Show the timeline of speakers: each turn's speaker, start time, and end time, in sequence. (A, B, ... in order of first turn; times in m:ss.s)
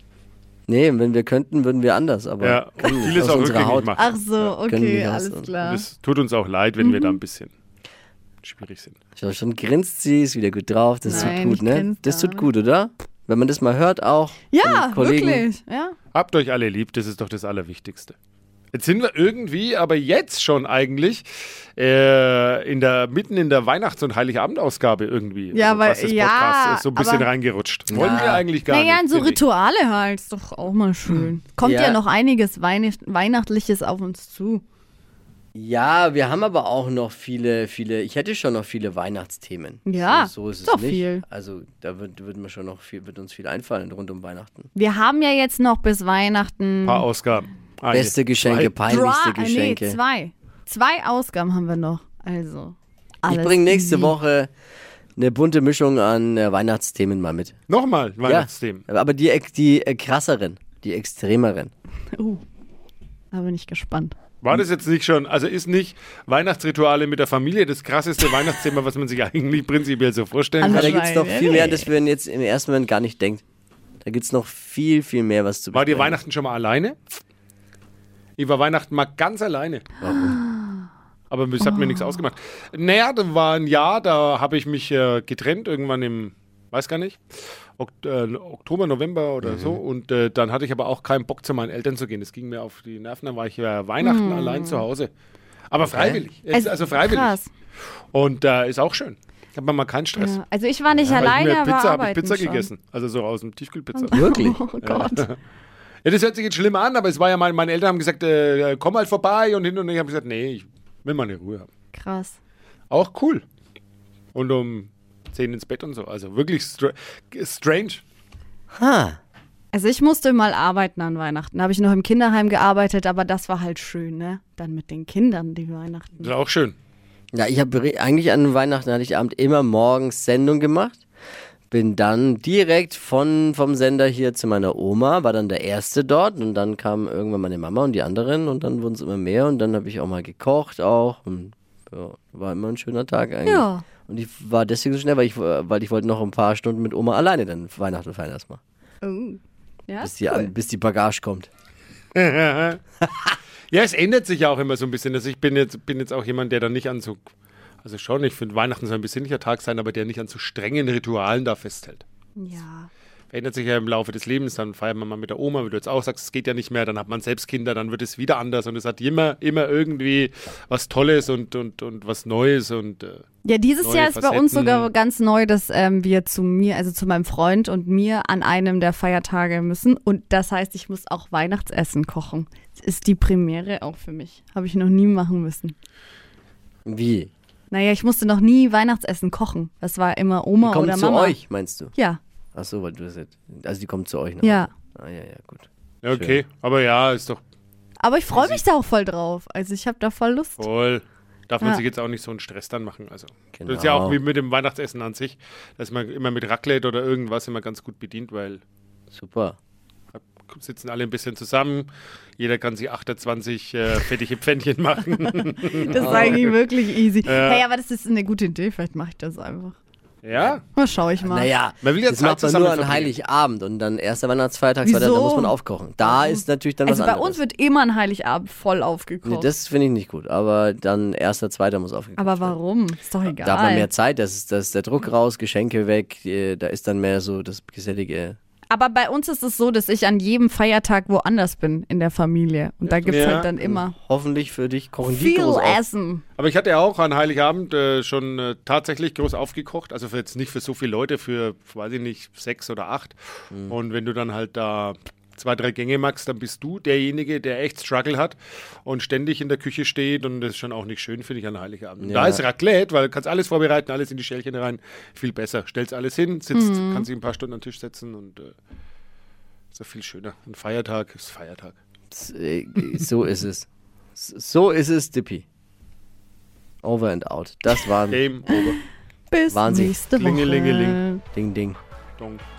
0:00.7-0:03.9 A
0:02.4-0:04.5 B
0:03.9-0:05.8 C
0:04.6-0:05.5 A
0:05.6-0:07.5 B
0:06.8-0:07.2 C
0:08.4-0:09.0 B
0:09.2-0:15.4 A
0:11.0-0:12.5 C
0:11.1-0:11.3 B
0:14.5-0:16.0 C
0:16.1-0:18.1 B
0:18.7-0:29.4 B
0:25.5-0:27.3 C
0:27.9-0:28.4 A
0:28.7-0:34.6 C
0:31.6-0:32.0 A
0:35.5-0:44.7 A
0:39.8-0:41.2 C
0:44.7-0:47.1 C
0:46.8-0:48.8 B
0:47.9-0:50.0 A
0:48.8-0:54.1 C
0:53.3-0:54.5 A
0:55.2-0:57.5 A
0:57.7-0:58.8 B
0:58.2-1:01.7 A
1:02.1-1:02.4 C
1:03.3-1:04.1 C
1:04.4-1:11.0 B
1:10.6-1:11.9 C
1:10.6-1:13.4 A
1:14.0-1:16.2 A
1:15.7-1:17.0 B
1:18.4-1:19.8 B
1:20.0-1:20.4 A
1:20.1-1:20.8 C
1:21.3-1:27.2 B
1:21.6-1:22.2 C
1:27.8-1:35.1 B
1:29.4-1:29.8 A
1:34.0-1:34.8 C
1:35.7-1:37.4 B
1:35.8-1:36.2 A
1:36.5-1:37.5 C
1:38.1-1:40.4 B
1:40.2-1:42.7 C
1:40.9-1:41.3 A
1:41.1-1:44.2 B
1:43.9-1:45.2 C
1:44.1-1:44.6 A
1:44.8-1:45.4 B
1:46.0-1:51.7 B
1:51.9-1:52.4 C
1:52.9-1:53.4 B
1:54.3-1:58.0 B
1:58.7-1:59.2 A
1:59.7-2:06.3 C
2:06.2-2:06.8 B
2:07.3-2:11.0 A
2:11.7-2:28.6 A
2:23.4-2:23.8 C
2:29.0-2:30.5 C
2:30.0-2:31.5 A
2:32.1-2:32.8 B
2:33.7-2:37.2 B
2:37.8-2:42.0 B
2:42.4-2:42.9 C
2:43.3-2:53.2 B
2:53.4-3:05.8 C
2:53.8-2:54.9 B
3:06.9-3:07.3 A
3:07.7-3:11.4 C
3:10.6-3:11.9 A
3:11.9-3:12.2 C
3:12.5-3:16.4 A
3:14.4-3:14.7 C
3:16.0-3:17.4 B
3:18.0-3:20.6 C
3:18.3-3:18.6 B
3:20.6-3:28.6 B
3:23.5-3:24.2 A
3:29.1-3:29.6 A
3:30.1-3:36.5 B
3:35.8-3:39.8 C
3:35.9-3:36.5 A
3:37.2-3:37.6 B
3:40.2-3:40.6 B
3:40.3-3:40.6 A
3:40.7-3:41.5 C
3:41.2-3:47.4 A
3:41.8-3:43.2 B
3:44.8-3:49.5 C
3:49.2-3:52.6 A
3:52.2-3:53.9 C
3:53.4-3:58.4 A
3:58.7-4:03.9 C
4:02.9-4:03.5 B
4:03.3-4:05.8 A
4:05.0-4:06.2 C
4:06.4-4:28.5 B
4:22.0-4:22.4 A
4:26.5-4:27.1 C
4:29.7-4:31.8 B
4:32.1-4:35.4 A
4:36.8-4:38.2 A
4:38.1-4:38.8 B
4:39.3-4:41.2 C
4:39.5-4:40.0 A
4:40.2-4:41.0 B
4:41.3-4:41.8 A
4:42.2-4:42.4 B